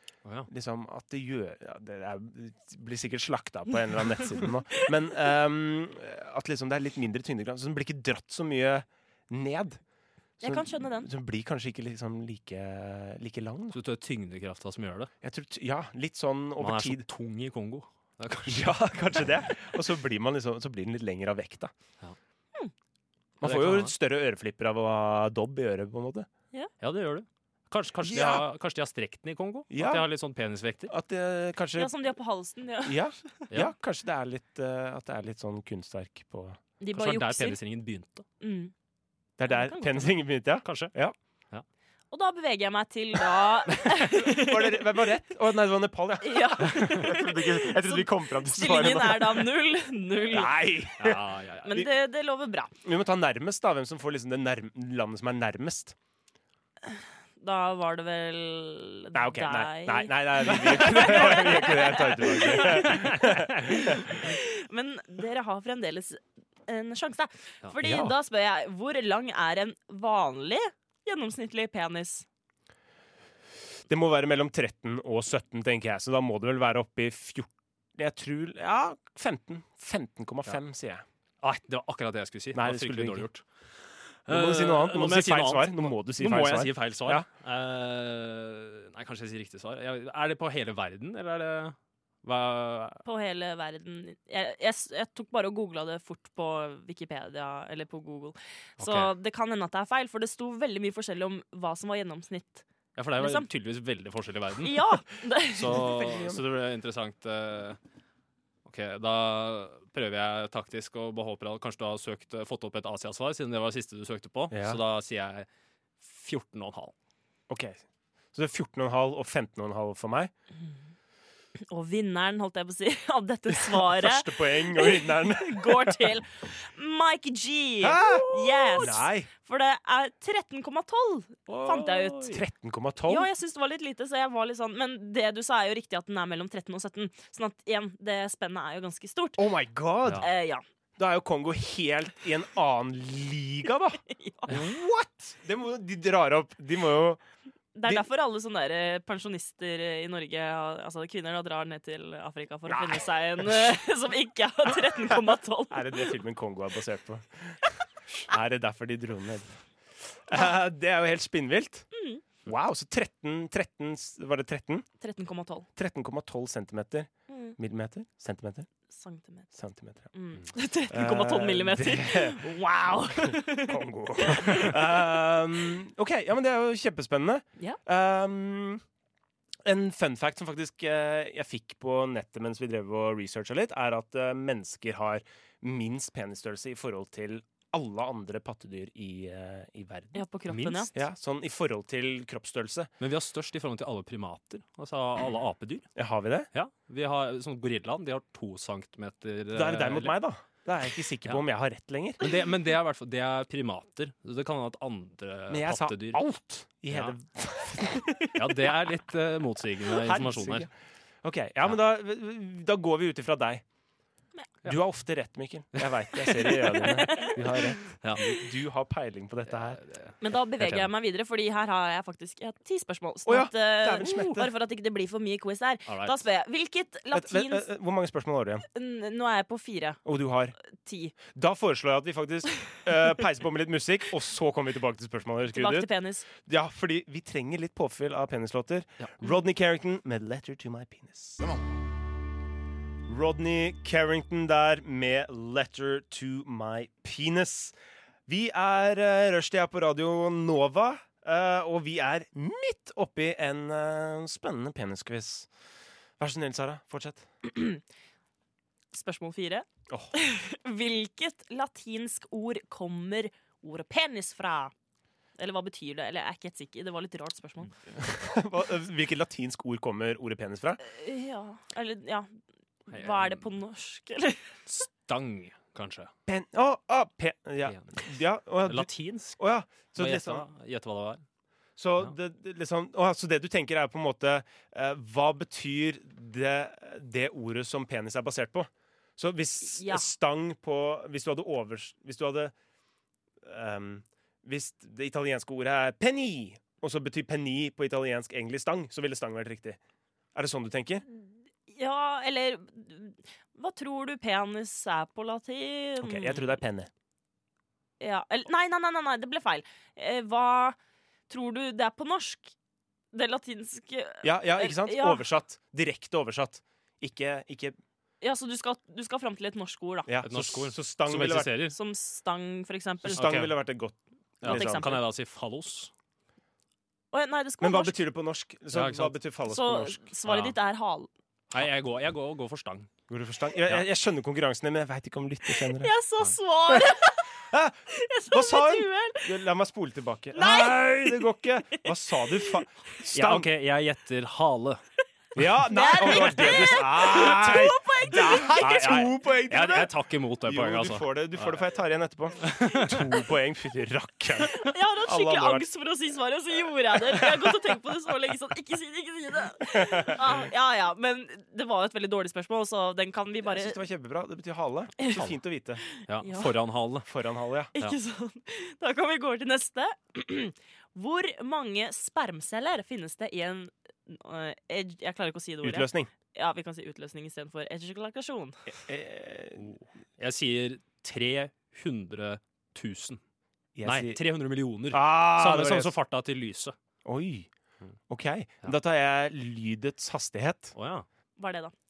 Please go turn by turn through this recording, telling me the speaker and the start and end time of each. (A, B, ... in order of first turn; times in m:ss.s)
0:00.5-0:09.8 A
0:10.4-0:13.8 A
0:10.4-0:11.1 B
0:13.7-0:15.1 C
0:15.2-0:17.0 A
0:16.6-0:18.8 C
0:18.5-0:21.7 A
0:23.4-0:26.3 A
0:23.4-0:23.9 C
0:26.8-0:30.9 C
0:28.0-0:28.5 A
0:29.7-0:30.0 A
0:30.9-0:31.9 A
0:31.8-0:33.0 B
0:32.8-0:36.6 A
0:36.8-0:37.6 B
0:36.9-0:38.2 C
0:38.4-0:38.7 B
0:39.4-0:41.1 A
0:39.5-0:40.1 B
0:40.6-0:40.9 C
0:42.1-0:44.9 B
0:44.1-0:49.5 A
0:46.2-0:50.5 B
0:50.3-0:51.9 A
0:51.0-0:51.8 C
0:51.6-0:52.7 B
0:52.8-0:56.0 A
0:56.9-1:03.0 B
0:59.1-1:04.2 A
1:02.7-1:03.7 C
1:03.7-1:12.2 B
1:07.8-1:08.1 A
1:13.9-1:21.0 A
1:21.4-1:23.4 C
1:22.5-1:23.3 A
1:24.2-1:33.0 C
1:24.3-1:27.2 A
1:33.0-1:42.6 B
1:38.8-1:39.1 C
1:42.9-1:44.9 C
1:43.2-1:43.5 B
1:44.6-1:46.0 B
1:45.5-1:47.8 C
1:45.6-1:46.4 A
1:48.6-1:55.5 C
1:54.5-1:54.8 A
1:56.0-1:56.9 C
1:57.5-2:00.3 A
2:01.6-2:12.4 B
2:03.5-2:06.1 A
2:07.8-2:09.3 A
2:11.5-2:12.4 C
2:12.3-2:13.3 A
2:13.1-2:19.4 B
2:19.4-2:20.3 A
2:20.2-2:20.6 B
2:21.0-2:27.2 A
2:24.0-2:24.5 B
2:27.7-2:36.1 B
2:32.7-2:33.8 A
2:34.8-2:37.7 A
2:38.2-2:41.9 A
2:41.9-2:42.2 B
2:42.4-2:44.8 A
2:45.0-2:45.7 B
2:45.8-2:48.7 A
2:47.3-2:47.6 B
2:48.9-2:49.5 B
2:49.5-2:50.1 A
2:50.1-2:54.8 B
2:50.9-2:52.5 A
2:53.2-2:58.8 A
2:59.6-3:10.2 A
3:10.1-3:10.9 B
3:10.5-3:10.9 C
3:10.9-3:12.9 A
3:13.0-3:15.9 C
3:16.0-3:16.5 A
3:16.5-3:20.1 C
3:19.5-3:22.2 A
3:22.2-3:26.2 C
3:25.5-3:28.3 A
3:26.9-3:27.1 C
3:28.3-3:30.7 C
3:29.9-3:30.7 A
3:31.2-3:33.6 A
3:34.6-3:39.8 A
3:35.8-3:36.7 C
3:36.4-3:37.7 B
3:38.0-3:38.3 C
3:39.8-3:40.9 C
3:40.2-3:47.7 B
3:43.2-3:44.5 A
3:45.9-3:46.1 C
3:47.1-3:48.6 A
3:48.7-3:50.0 B
3:50.0-3:50.5 A
3:50.6-3:51.2 B
3:51.3-4:01.6 A
3:55.5-3:56.2 B
4:03.0-4:07.7 A
4:08.3-4:15.5 A
4:16.2-4:17.3 A
4:17.4-4:17.8 B
4:18.9-4:24.7 B
4:25.4-4:27.7 B
4:28.0-4:30.8 A
4:30.8-4:32.3 B
4:32.9-4:34.6 B
4:32.9-4:33.4 C
4:34.7-4:36.1 C
4:36.3-4:40.5 A
4:37.7-4:38.0 C
4:38.6-4:39.4 C
4:40.0-4:41.2 C
4:41.8-4:52.5 A
4:49.6-4:50.0 B
4:53.4-4:59.8 A
5:00.3-5:01.0 A
5:01.7-5:06.4 B
5:06.0-5:06.9 A
5:08.0-5:10.8 B
5:11.3-5:12.5 B
5:13.1-5:15.2 B
5:14.2-5:17.8 A
5:18.2-5:20.1 B
5:20.1-5:21.6 A
5:20.2-5:21.8 C
5:21.7-5:23.4 B
5:23.0-5:25.0 A
5:23.1-5:23.5 C
5:24.4-5:25.9 C
5:24.4-5:25.0 B
5:27.1-5:28.0 B
5:27.6-5:30.0 A
5:28.7-5:29.1 C
5:29.5-5:31.1 B
5:30.2-5:30.5 C
5:31.5-5:32.9 C
5:33.1-5:35.9 A
5:35.5-5:39.3 B
5:36.7-5:43.5 A
5:40.3-5:41.9 B
5:43.1-5:44.8 C
5:45.3-5:49.9 A
5:45.7-5:48.9 B
5:48.4-5:51.6 C
5:50.4-5:55.6 A
5:52.4-5:53.0 C
5:54.4-6:03.8 B
5:59.6-6:00.3 A
6:03.4-6:05.8 A
6:06.0-6:06.5 B
6:06.0-6:07.1 C
6:07.1-6:07.7 A
6:07.7-6:18.7 B
6:15.6-6:16.1 A
6:18.7-6:19.7 A
6:19.6-6:23.2 C
6:23.8-6:24.2 A
6:23.8-6:26.7 C
6:24.9-6:25.9 A
6:27.0-6:27.5 A
6:28.1-6:30.7 A
6:30.7-6:31.0 C
6:31.4-6:31.7 B